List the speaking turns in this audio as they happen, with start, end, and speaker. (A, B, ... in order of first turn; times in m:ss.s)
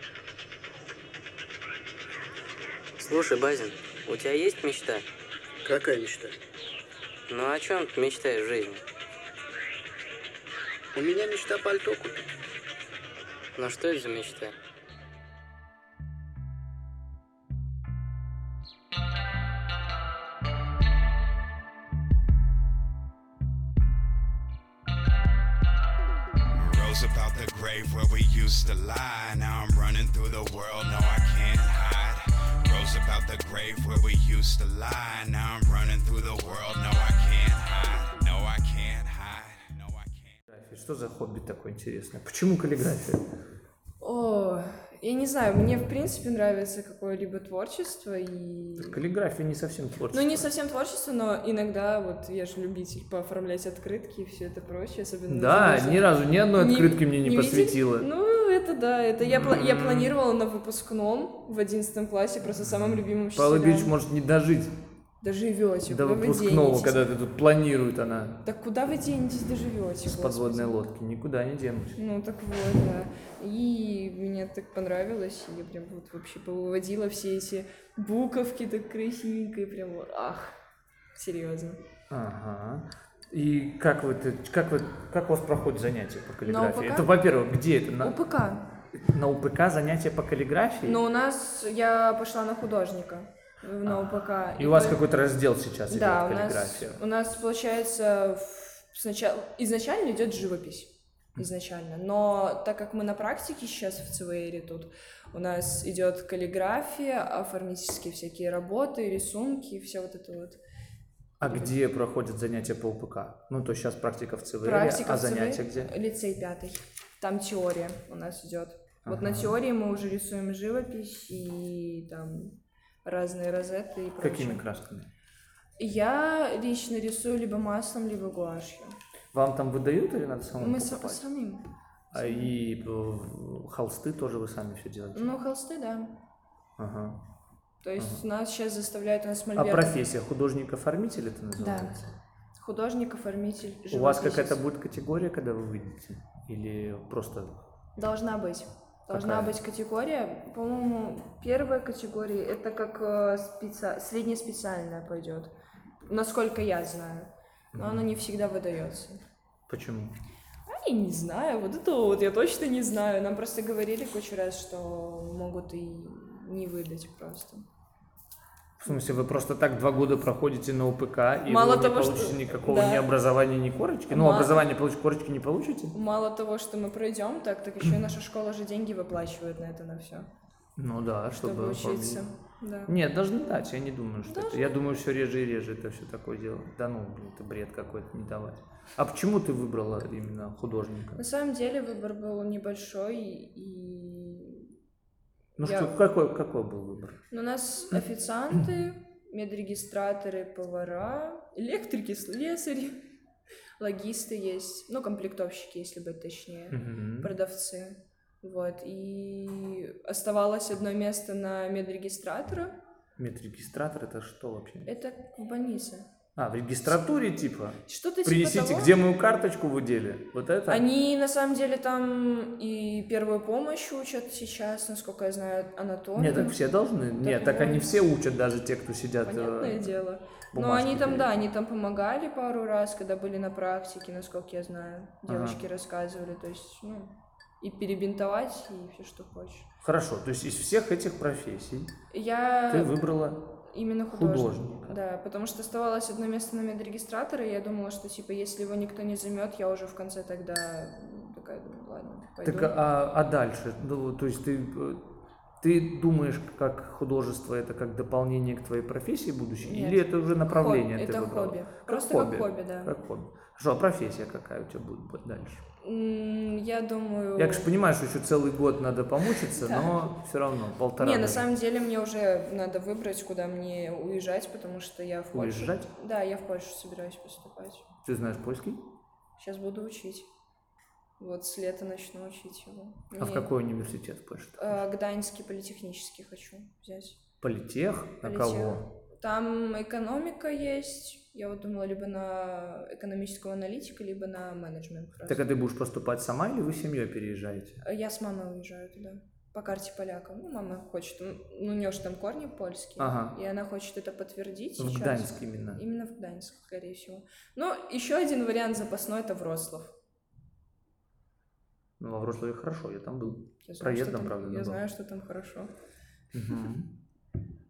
0:03.0-0:05.0 A
0:05.6-0:06.4 B
0:07.3-0:08.8 A
0:11.0-0:12.3 B
0:13.6-0:14.5 A
0:26.6-0:40.3 C
0:40.5-0:43.2 D
0:44.0-0:49.0 E
0:48.8-0:50.5 D
0:50.1-1:03.9 E
0:55.3-0:58.1 D
0:59.2-1:00.2 D
1:02.6-1:04.8 D
1:05.2-1:07.0 E
1:05.9-1:08.4 D
1:08.4-1:10.9 E
1:10.0-1:12.0 D
1:12.0-1:20.5 E
1:21.1-1:21.8 E
1:22.1-1:28.2 D
1:26.4-1:27.1 E
1:28.0-1:28.7 E
1:28.9-1:31.0 D
1:30.8-1:35.0 E
1:33.8-1:37.0 D
1:35.9-1:50.6 E
1:51.4-1:55.9 D
1:51.4-1:51.7 E
1:54.6-2:04.6 E
1:59.0-1:59.5 D
2:04.2-2:05.1 D
2:05.8-2:09.0 E
2:09.3-2:11.3 D
2:10.6-2:12.5 E
2:12.1-2:15.3 D
2:15.2-2:16.2 E
2:16.8-2:17.2 D
2:17.8-2:20.0 E
2:18.0-2:18.2 D
2:19.6-2:22.1 D
2:21.6-2:21.9 E
2:22.6-2:24.6 E
2:23.9-2:27.6 D
2:28.0-2:35.5 E
2:29.1-2:29.6 D
2:36.1-2:39.2 E
2:37.7-2:38.1 D
2:39.7-2:40.2 D
2:40.7-2:47.6 E
2:48.8-2:56.0 D
2:48.9-2:49.2 E
2:51.5-2:53.1 E
2:54.1-2:54.6 E
2:55.9-3:00.3 E
3:00.8-3:02.2 D
3:01.4-3:03.0 E
3:02.9-3:11.2 D
3:04.2-3:05.0 E
3:11.2-3:14.7 E
3:15.6-3:17.2 D
3:15.6-3:16.0 E
3:17.3-3:23.0 E
3:23.8-3:32.8 E
3:26.7-3:27.3 D
3:33.2-3:34.9 D
3:34.9-3:36.1 E
3:36.4-3:40.8 D
3:37.9-3:39.0 E
3:40.7-3:46.6 E
3:46.2-3:49.9 D
3:47.2-3:48.0 E
3:49.2-3:59.7 E
3:50.5-3:51.3 D
3:55.2-3:55.6 D
3:59.8-4:01.9 D
4:02.1-4:03.0 E
4:02.7-4:03.6 D
4:03.7-4:12.8 E
4:04.1-4:05.0 D
4:12.4-4:15.1 D
4:15.6-4:25.6 D
4:19.6-4:22.9 E
4:25.8-4:27.7 E
4:27.4-4:31.5 D
4:29.6-4:30.1 E
4:31.0-4:37.9 E
4:35.3-4:35.9 D
4:38.0-4:38.8 D
4:39.4-4:40.3 E
4:41.2-4:43.5 E
4:43.1-4:44.8 D
4:44.6-4:47.2 E
4:47.4-4:48.9 D
4:48.2-4:55.4 E
4:55.2-4:57.8 D
4:57.8-5:09.9 E
5:03.0-5:03.4 D
5:04.8-5:05.8 D
5:12.0-5:14.8 D
5:13.6-5:15.7 E
5:16.3-5:16.9 D